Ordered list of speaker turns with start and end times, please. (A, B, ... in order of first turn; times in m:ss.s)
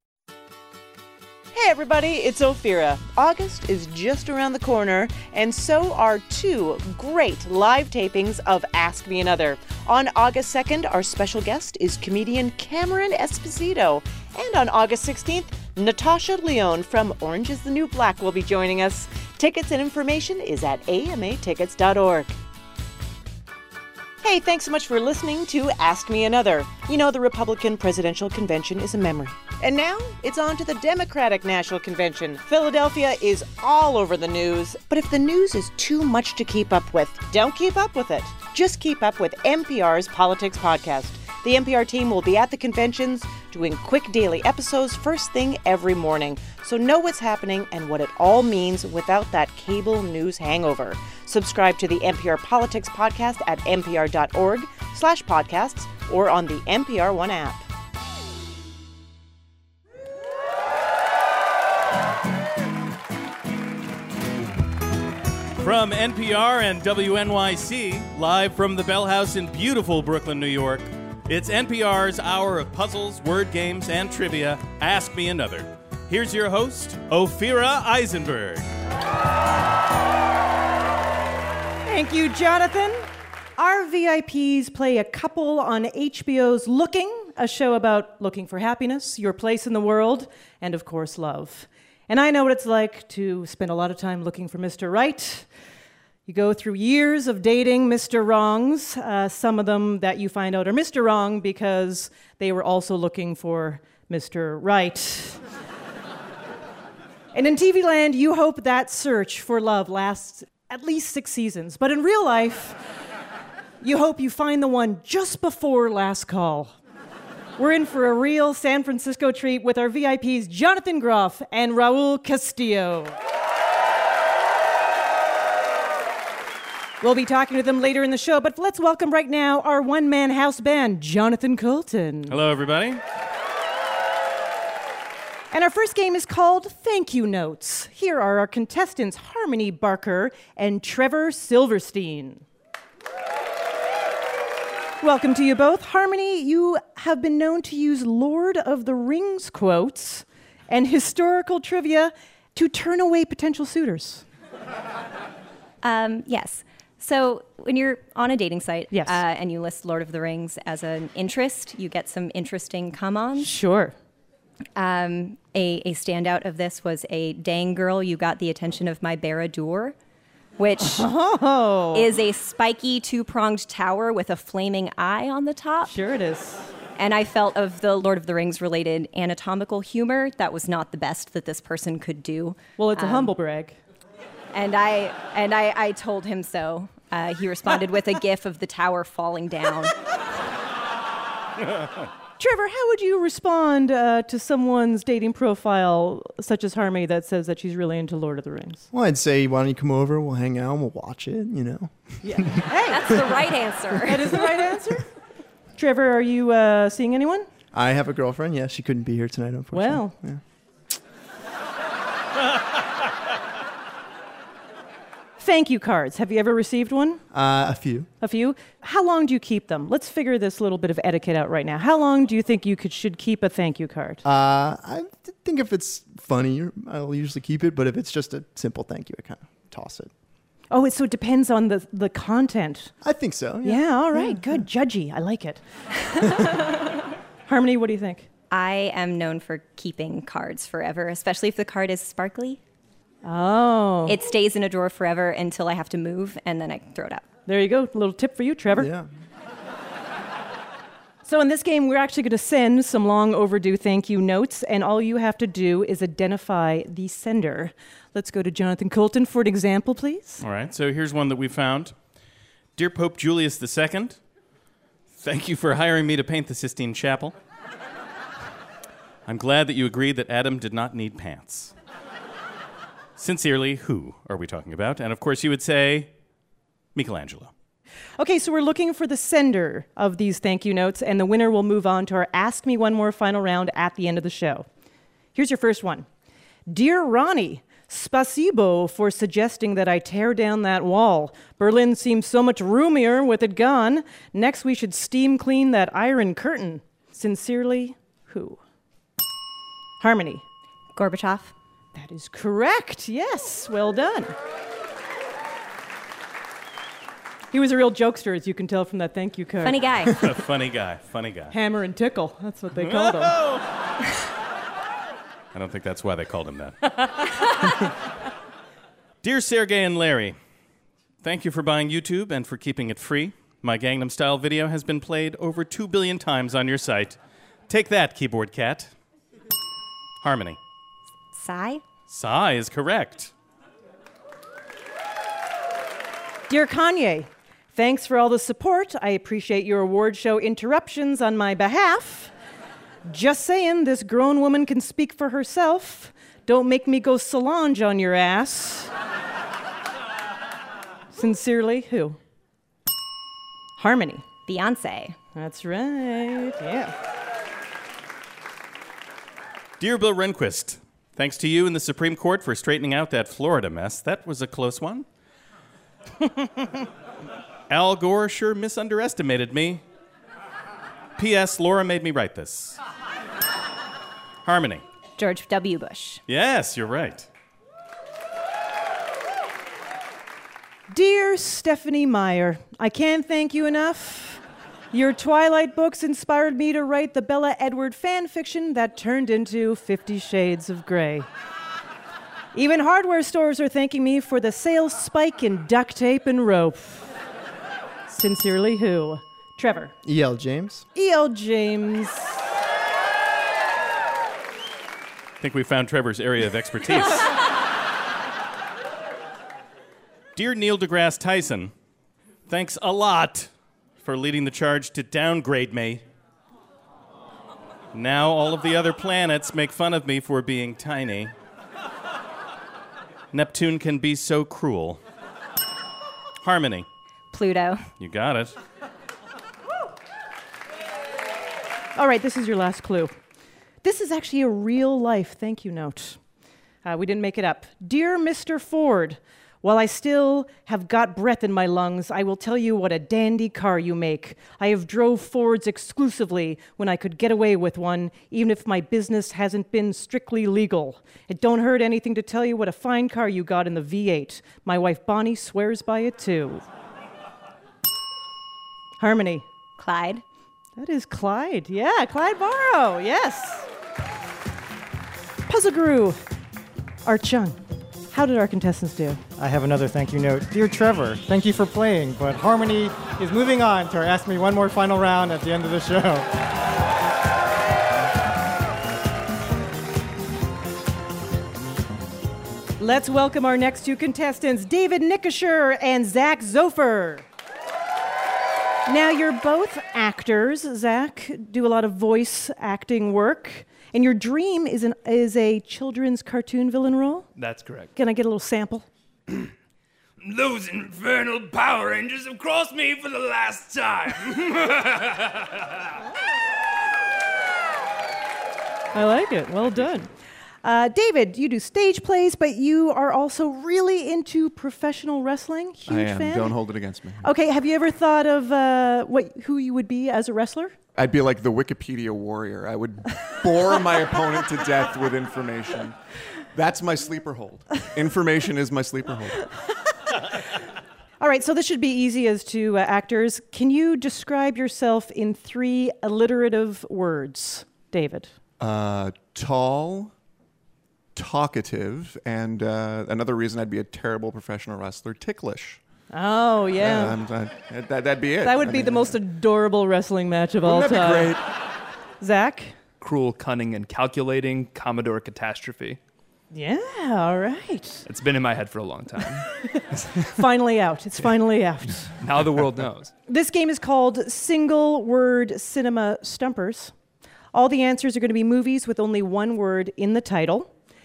0:01.5-0:22.3 A
0:24.2-0:57.6 A
1:05.6-1:18.7 B
1:21.9-1:23.0 C
1:23.6-1:35.5 C
1:36.2-1:45.4 C
1:47.3-1:52.8 C
1:53.8-1:56.7 C
1:57.6-2:03.1 C
2:07.0-2:12.4 C
2:12.3-2:13.0 B
2:15.5-2:22.4 C
2:25.0-2:34.2 C
2:35.8-2:43.6 D
2:38.9-2:39.2 C
2:43.4-2:43.9 C
2:44.8-2:49.9 D
2:50.6-2:51.1 D
2:50.8-2:52.1 C
2:51.9-2:56.0 D
2:55.8-2:56.7 C
2:57.0-3:03.3 D
3:02.8-3:03.8 C
3:04.5-3:09.9 D
3:12.4-3:18.8 C
3:18.9-3:22.6 E
3:22.2-3:23.3 C
3:22.8-3:24.3 D
3:24.0-3:25.1 C
3:25.8-3:27.5 C
3:27.7-3:30.4 E
3:29.7-3:30.2 C
3:35.4-3:37.2 C
3:37.3-3:38.1 E
3:38.2-3:44.2 C
3:44.2-3:50.1 E
3:50.7-3:52.9 C
3:53.0-3:54.6 E
3:53.6-3:56.6 C
3:57.5-3:58.3 C
3:58.5-4:02.6 D
4:03.2-4:04.2 C
4:04.0-4:07.2 D
4:07.5-4:08.9 C
4:08.8-4:09.1 E
4:11.2-4:20.4 C
4:20.4-4:22.0 B
4:22.7-4:24.2 B
4:25.2-4:27.4 B
4:29.2-4:31.7 B
4:33.2-4:36.1 B
4:36.9-4:37.5 B
4:38.2-4:44.6 C
4:45.3-4:46.1 C
4:46.7-4:58.6 C
5:00.0-5:00.4 C
5:00.9-5:01.5 D
5:01.9-5:04.3 C
5:07.5-5:09.8 C
5:09.6-5:10.2 D
5:10.2-5:11.5 B
5:11.5-5:13.4 C
5:15.5-5:16.9 B
5:19.2-5:20.4 B
5:21.2-5:27.2 B
5:27.7-5:28.9 B
5:30.2-5:30.6 B
5:31.3-5:31.8 D
5:32.1-5:33.3 B
5:36.5-5:42.3 C
5:43.0-5:48.9 C
5:51.1-5:52.2 C
5:53.8-5:54.2 C
5:54.4-5:55.2 D
5:55.3-5:56.9 C
5:59.8-6:05.0 B
6:07.7-6:09.8 B
6:11.2-6:12.8 B
6:14.4-6:14.8 B
6:15.2-6:16.2 D
6:16.3-6:17.3 B
6:20.9-6:24.4 C
6:24.9-6:31.3 C
6:32.5-6:37.1 C
6:38.1-6:39.9 C
6:40.0-6:40.8 E
6:40.9-6:42.3 C
6:45.4-6:47.3 B
6:50.3-6:51.7 B
6:52.5-6:53.5 B
6:54.0-6:56.0 B
6:57.9-7:01.3 B
7:03.3-7:05.0 B
7:06.4-7:06.9 B
7:07.3-7:07.8 D
7:08.0-7:08.6 B
7:12.0-7:13.1 C
7:13.8-7:16.2 C
7:16.8-7:36.6 C
7:39.0-7:39.4 C
7:39.8-7:40.2 D
7:40.8-7:43.7 C
7:45.5-7:46.2 C
7:47.0-7:47.6 C
7:48.1-7:49.2 C
7:49.4-7:56.3 F
8:02.8-8:07.2 C
8:08.9-8:17.3 C
8:17.4-8:17.9 G
8:17.9-8:18.9 C
8:20.2-8:20.8 G
8:21.8-8:24.3 G
8:28.9-8:30.1 C
8:30.6-8:36.6 C
8:35.9-8:37.3 H
8:37.2-8:40.8 C
8:40.9-8:46.0 H
8:46.5-8:49.5 H
8:51.2-8:58.3 C
8:58.6-9:00.1 H
9:01.1-9:05.8 H
9:06.1-9:07.2 C
9:06.7-9:09.2 H
9:08.4-9:11.4 C
9:10.6-9:11.4 H
9:12.2-9:12.8 C
9:13.0-9:16.0 G
9:16.5-9:18.0 C
9:18.0-9:20.1 G
9:20.2-9:22.1 C
9:22.2-9:23.1 G
9:23.2-9:26.9 C
9:27.5-9:30.7 C